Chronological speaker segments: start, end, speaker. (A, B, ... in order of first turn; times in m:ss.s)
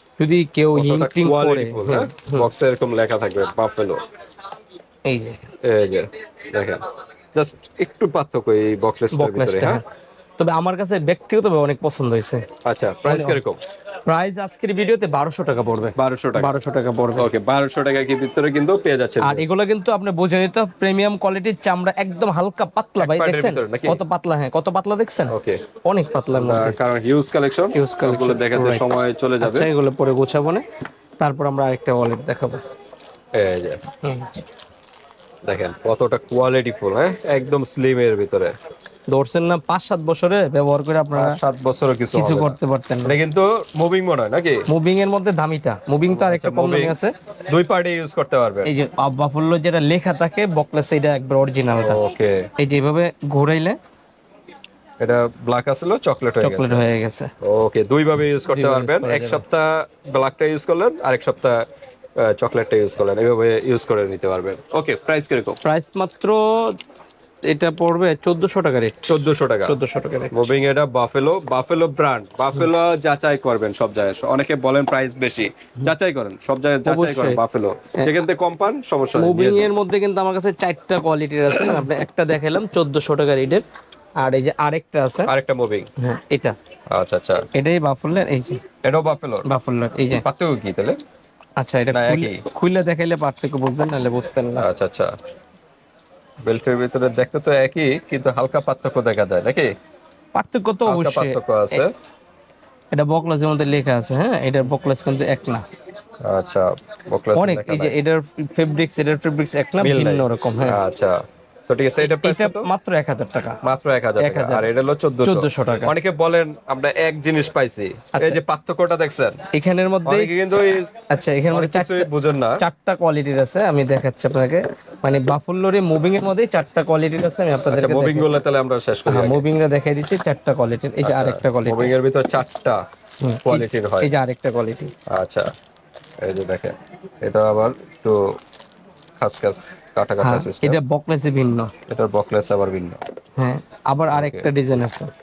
0:00.2-0:02.5 A
0:00.7-0:04.0 B
0:05.1-0:05.4 A
0:05.6-0:09.8 B
0:09.1-0:09.8 A
0:10.4-0:12.5 A
0:12.6-0:13.6 B
0:13.1-0:13.4 A
0:14.1-0:17.3 A
0:16.0-0:16.6 B
0:17.2-0:19.5 B
0:19.2-0:26.8 A
0:23.0-0:24.0 B
0:25.3-0:25.6 B
0:26.3-0:29.7 B
0:27.7-0:28.8 A
0:29.4-0:30.6 A
0:31.2-0:32.6 A
0:33.3-0:33.8 B
0:34.0-0:34.4 A
0:35.5-0:38.5 B
0:39.1-0:41.4 A
0:41.1-0:44.6 B
0:42.1-0:43.2 A
0:44.7-0:47.1 A
0:46.1-0:48.7 B
0:48.6-0:52.0 A
0:51.7-0:52.5 B
0:52.6-0:53.8 A
0:55.0-0:56.8 B
0:56.4-0:57.3 A
0:57.4-1:01.6 B
0:58.5-0:59.4 A
1:02.2-1:05.6 B
1:05.6-1:06.8 A
1:07.5-1:10.4 A
1:09.1-1:09.8 B
1:10.3-1:19.7 B
1:16.8-1:17.4 A
1:18.0-1:18.2 A
1:19.2-1:23.6 A
1:24.2-1:25.3 A
1:25.3-1:25.9 B
1:26.0-1:26.6 A
1:26.9-1:27.5 B
1:27.5-1:28.6 A
1:28.8-1:29.5 B
1:29.4-1:30.2 A
1:30.2-1:31.0 B
1:31.6-1:34.7 A
1:31.9-1:32.4 B
1:34.6-1:35.2 B
1:36.4-1:39.7 B
1:40.4-1:41.8 A
1:40.9-1:41.9 B
1:42.9-1:45.6 A
1:46.2-1:48.0 B
1:47.4-1:50.8 A
1:49.8-1:52.7 B
1:52.0-1:53.6 A
1:53.6-1:59.4 B
1:54.2-1:54.7 A
1:55.2-1:55.9 A
1:58.1-1:58.4 A
1:59.5-2:00.3 A
2:00.0-2:00.9 B
2:01.1-2:02.1 A
2:01.5-2:02.6 B
2:02.6-2:08.4 A
2:07.7-2:09.5 B
2:09.1-2:11.9 A
2:11.0-2:12.8 B
2:13.2-2:14.9 A
2:13.4-2:14.1 B
2:15.1-2:15.5 B
2:16.2-2:18.4 B
2:19.2-2:20.8 B
2:20.2-2:21.7 A
2:21.9-2:23.0 B
2:23.4-2:25.1 A
2:24.1-2:24.5 B